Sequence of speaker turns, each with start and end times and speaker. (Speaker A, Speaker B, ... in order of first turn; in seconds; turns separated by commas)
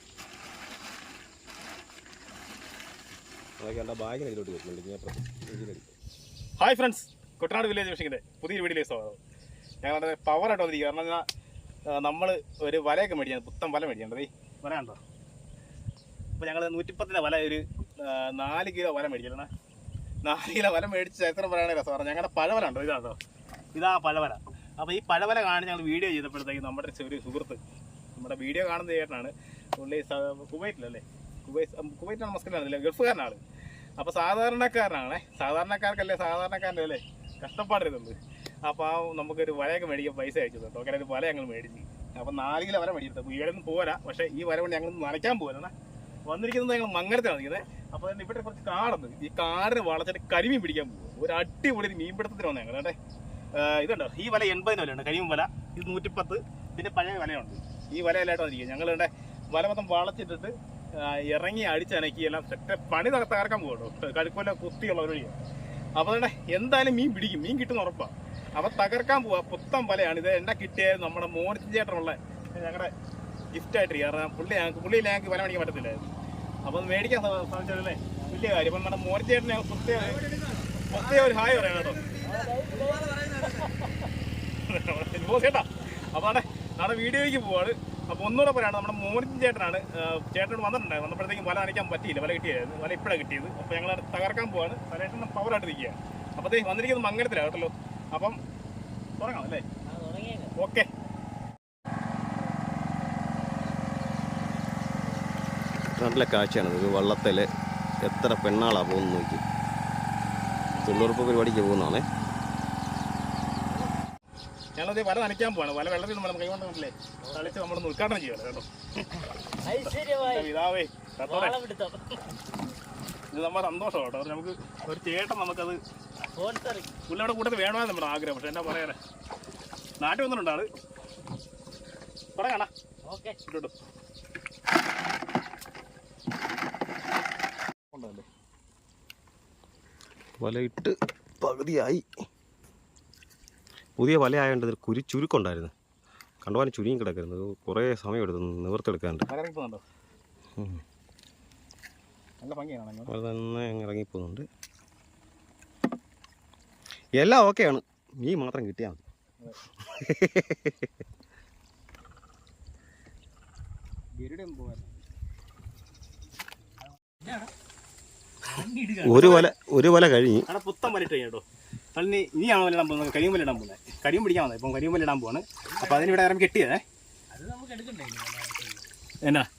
Speaker A: 3.6-5.9, Speaker B: 6.6-9.2, Speaker B: 9.8-11.2, Speaker B: 11.9-15.0, Speaker B: 16.4-19.5, Speaker B: 20.2-23.2, Speaker B: 23.7-27.6, Speaker B: 28.1-33.4, Speaker B: 34.0-45.7, Speaker B: 46.3-53.0, Speaker B: 53.5-65.4, Speaker B: 66.0-72.9, Speaker B: 73.5-76.0, Speaker B: 76.7-82.2, Speaker C: 82.2-83.9, Speaker B: 84.7-98.4, Speaker B: 99.2-99.6, Speaker C: 99.8-100.5, Speaker B: 100.6-100.9, Speaker A: 105.9-107.5, Speaker A: 108.0-109.4, Speaker A: 110.8-112.0, Speaker B: 114.8-118.7, Speaker C: 117.2-117.5, Speaker C: 119.6-120.5, Speaker B: 119.8-121.5, Speaker C: 121.2-122.2, Speaker B: 123.3-125.8, Speaker C: 126.3-126.9, Speaker B: 127.1-129.0, Speaker B: 130.0-130.7, Speaker B: 132.3-132.7, Speaker C: 133.0-133.4, Speaker B: 133.4-133.7, Speaker B: 137.9-138.2, Speaker A: 140.4-142.0, Speaker A: 144.0-145.7, Speaker A: 146.4-149.3, Speaker B: 149.3-149.8, Speaker A: 150.6-150.8, Speaker B: 152.4-153.1, Speaker A: 153.1-154.4, Speaker A: 157.2-159.0, Speaker A: 159.8-160.9, Speaker B: 164.1-165.0, Speaker C: 167.2-167.5, Speaker C: 168.4-169.4, Speaker A: 169.0-170.4, Speaker B: 169.1-169.5, Speaker B: 170.5-171.4, Speaker B: 171.9-176.8, Speaker C: 175.7-176.2, Speaker C: 177.3-178.8